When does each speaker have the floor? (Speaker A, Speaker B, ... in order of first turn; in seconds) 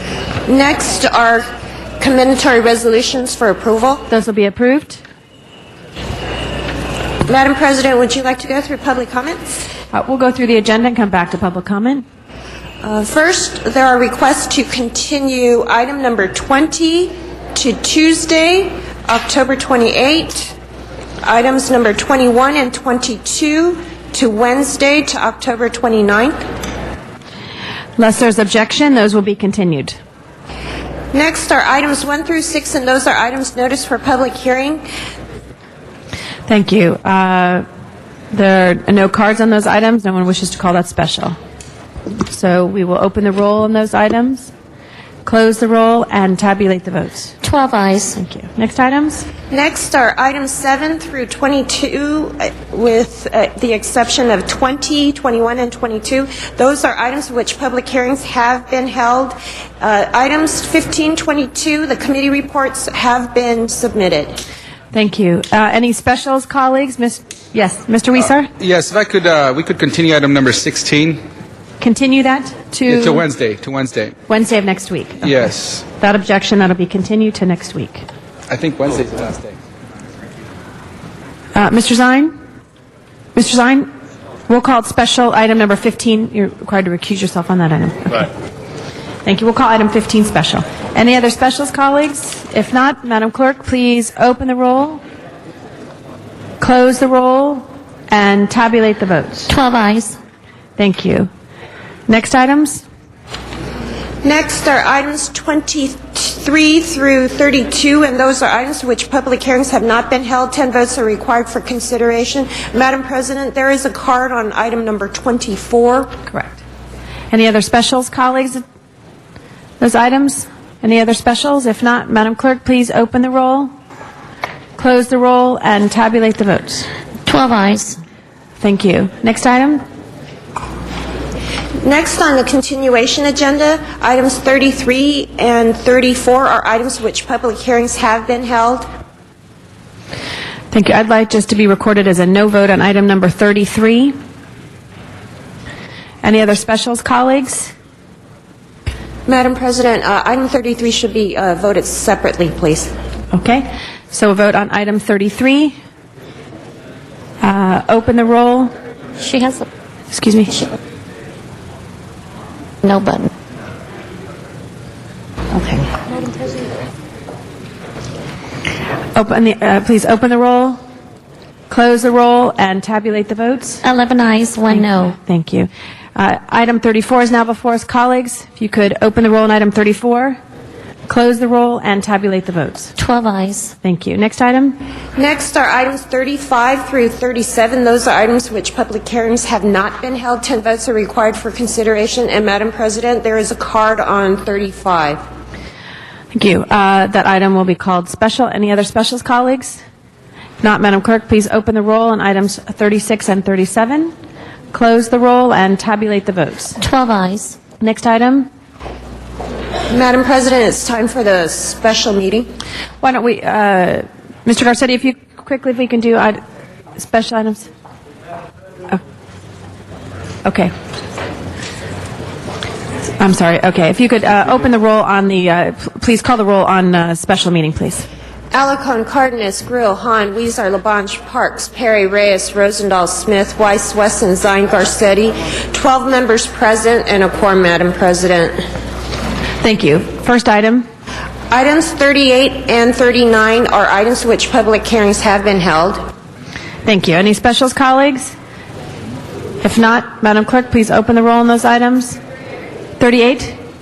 Speaker A: 0.5-1.5, 2.0-4.1, 7.2-9.6, 12.8-20.5, 21.2-26.4, 31.1-34.8, 49.5-64.4, 104.2-116.2, 131.8-138.9, 149.2-152.9, 185.2-195.2, 209.9-212.5, 228.5-238.6, 241.5-246.0
Speaker B: 4.1-5.0, 9.9-12.0, 28.0-30.0, 36.5-37.6, 38.3-41.4, 42.2-44.5, 45.2-47.3, 48.1-49.3, 64.9-68.5, 71.8-73.2, 74.3-75.4, 75.9-78.0, 81.5-82.3, 83.3-83.9, 84.5-88.3, 89.2-95.0, 96.6-99.5, 100.8-101.3, 102.1-102.8, 116.3-116.6, 117.3-118.6, 119.8-123.7, 124.8-126.9, 128.6-129.8, 140.7-144.1, 146.2-147.7, 153.3-155.8, 157.4-158.7, 160.1-160.6, 169.1-170.8, 171.7-173.8, 174.7-180.4, 181.1-182.9, 183.8-184.8, 196.3-199.8, 200.6-204.1, 204.7-206.8, 207.8-208.5, 213.0-216.4, 217.0-217.7, 220.4-220.7, 223.2-228.1, 239.6-240.8, 246.8-248.3, 249.6-252.2, 253.0-253.6
Speaker C: 47.4-48.2, 99.5-100.2, 127.2-128.0, 159.2-159.7, 162.8-163.3, 165.5-166.5, 173.8-175.2, 183.0-183.7, 206.8-207.6
Speaker D: 68.6-71.2, 72.8-74.1, 75.2-75.8, 78.5-79.6